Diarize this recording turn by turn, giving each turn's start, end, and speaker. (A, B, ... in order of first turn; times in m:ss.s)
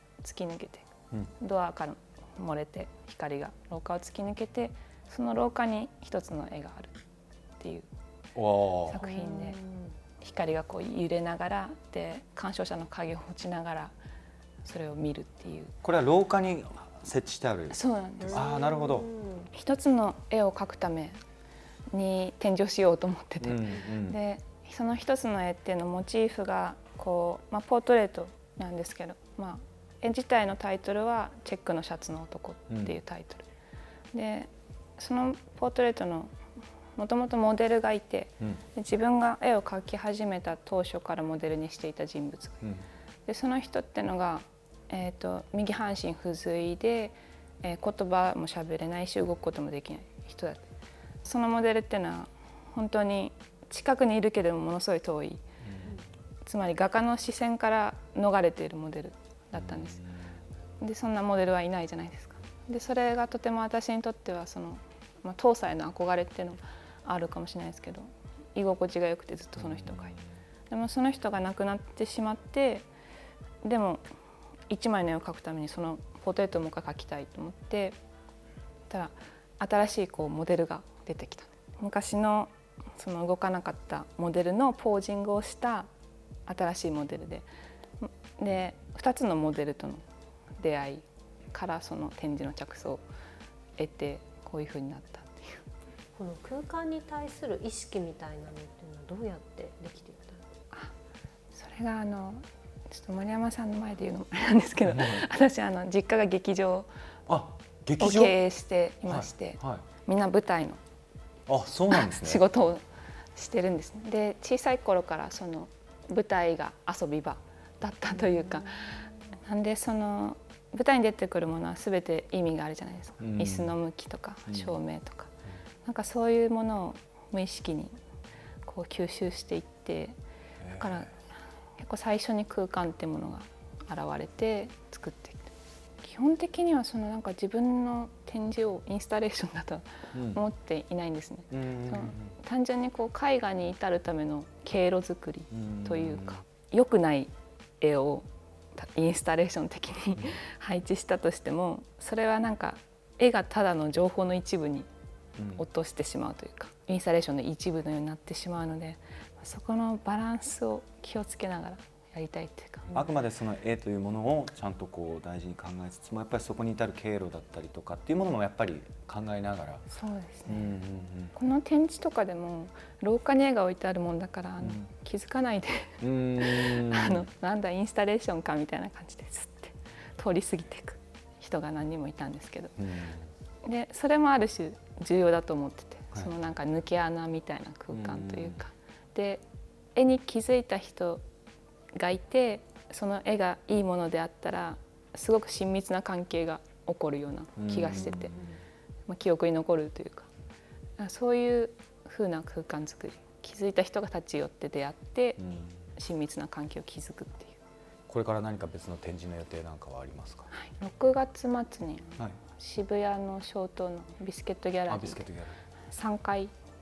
0:00.2-0:07.0 A
0:07.6-0:07.9 A
0:08.4-0:09.1 B
0:08.8-0:09.6 A
0:09.0-0:09.9 C
0:10.2-0:13.9 A
0:14.6-0:15.7 A
0:15.8-0:17.8 B
0:17.7-0:18.5 A
0:18.3-0:19.5 C
0:18.3-0:19.1 B
0:19.5-0:21.2 A
0:21.9-0:33.5 A
0:23.4-0:24.2 B
0:32.7-0:33.0 B
0:34.1-0:36.3 A
0:37.0-0:42.6 A
0:43.3-0:50.6 A
0:51.2-0:55.4 A
0:55.6-0:56.0 B
0:56.4-1:00.0 A
0:59.6-1:00.3 B
1:00.8-1:10.2 A
1:09.6-1:10.2 B
1:10.7-1:12.9 A
1:13.6-1:14.0 A
1:14.7-1:18.0 A
1:18.9-1:25.9 A
1:26.5-1:27.5 A
1:28.0-1:30.0 A
1:30.6-1:33.0 A
1:33.8-1:35.6 A
1:36.2-1:40.4 C
1:41.5-1:46.9 A
1:44.9-1:45.2 B
1:47.3-1:48.4 B
1:48.0-1:50.8 A
1:49.1-1:49.8 B
1:51.5-1:52.5 B
1:51.9-1:52.8 A
1:53.4-2:05.3 A
2:03.2-2:03.8 B
2:04.5-2:04.7 B
2:05.8-2:07.9 A
2:08.6-2:10.2 A
2:10.6-2:11.1 B
2:10.8-2:11.1 A
2:11.8-2:34.9 A
2:20.1-2:20.4 B
2:21.5-2:22.4 B
2:25.5-2:26.4 B
2:35.4-2:35.6 B
2:35.6-2:43.0 A
2:42.9-2:49.9 B
2:49.9-2:50.8 A
2:50.5-2:51.3 B
2:51.3-3:02.8 A
2:54.6-2:54.9 B
2:56.0-2:57.3 B
3:02.8-3:03.3 B
3:03.6-3:09.4 A
3:07.9-3:08.6 B
3:10.0-3:11.2 A
3:11.9-3:18.5 A
3:17.6-3:18.6 B
3:19.1-3:20.3 A
3:21.0-3:27.6 A
3:25.4-3:25.9 B
3:28.1-3:30.5 B
3:30.5-3:35.3 A
3:34.9-3:35.6 B
3:35.9-3:36.5 A